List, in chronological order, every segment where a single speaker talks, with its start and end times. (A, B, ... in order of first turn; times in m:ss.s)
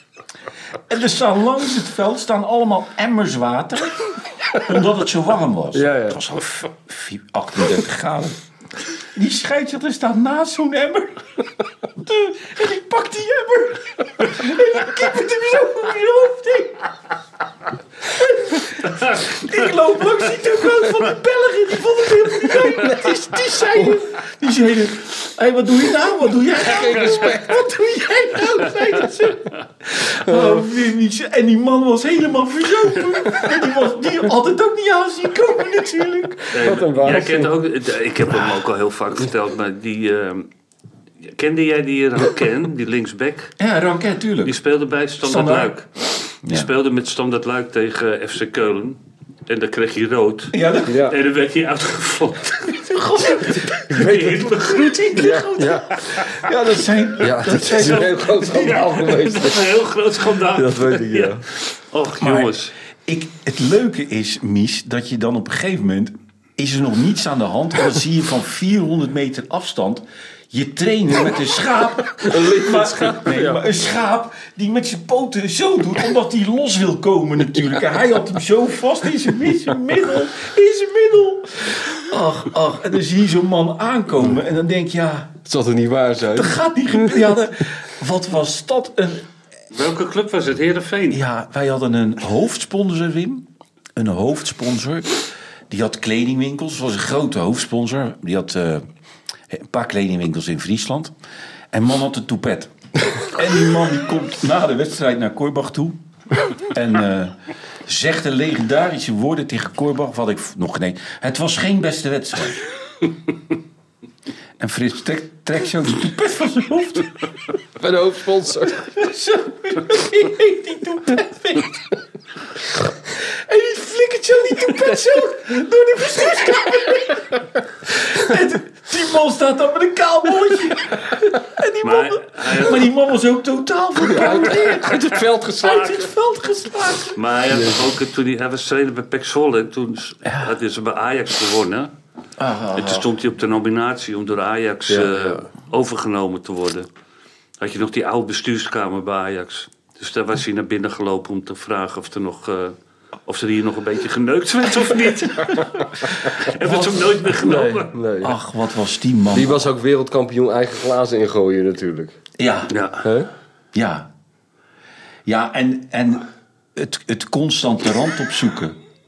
0:00.9-0:08.4 A
0:05.7-0:06.2 B
0:09.1-0:11.2 A
0:12.0-0:16.8 A
0:18.1-0:36.7 A
0:22.5-0:24.0 B
0:26.6-0:27.6 B
0:36.5-0:40.5 C
0:36.6-0:37.6 B
0:41.2-0:43.5 C
0:43.6-0:44.6 A
0:44.4-0:55.4 C
0:45.2-0:45.7 A
0:46.4-0:46.7 A
0:50.5-0:51.1 A
0:50.9-0:51.2 B
0:52.7-0:58.8 A
0:55.2-0:56.0 B
0:55.9-0:56.4 C
0:57.2-0:59.6 B
0:57.8-1:02.7 C
1:00.5-1:01.4 B
1:02.2-1:25.4 A
1:12.2-1:13.6 B
1:25.4-1:27.2 B
1:26.3-1:29.2 A
1:29.7-1:31.2 C
1:31.1-1:38.9 A
1:39.5-1:41.1 A
1:41.7-1:46.0 A
1:46.6-1:52.6 A
1:54.6-1:57.2 A
1:57.8-1:58.9 B
1:58.8-2:01.9 A
2:03.2-2:17.2 A
2:11.8-2:12.9 C
2:14.1-2:16.0 B
2:14.2-2:16.1 C
2:17.1-2:21.9 C
2:17.5-2:17.8 B
2:20.2-2:20.5 A
2:22.4-2:23.1 A
2:22.7-2:26.9 C
2:24.9-2:25.4 B
2:27.6-2:37.9 C
2:36.6-2:37.3 A
2:37.4-2:38.4 B
2:38.2-2:39.7 A
2:39.3-2:42.2 B
2:42.4-2:42.7 A
2:42.7-2:43.1 C
2:43.0-2:43.3 B
2:43.7-2:44.1 A
2:45.3-2:48.8 A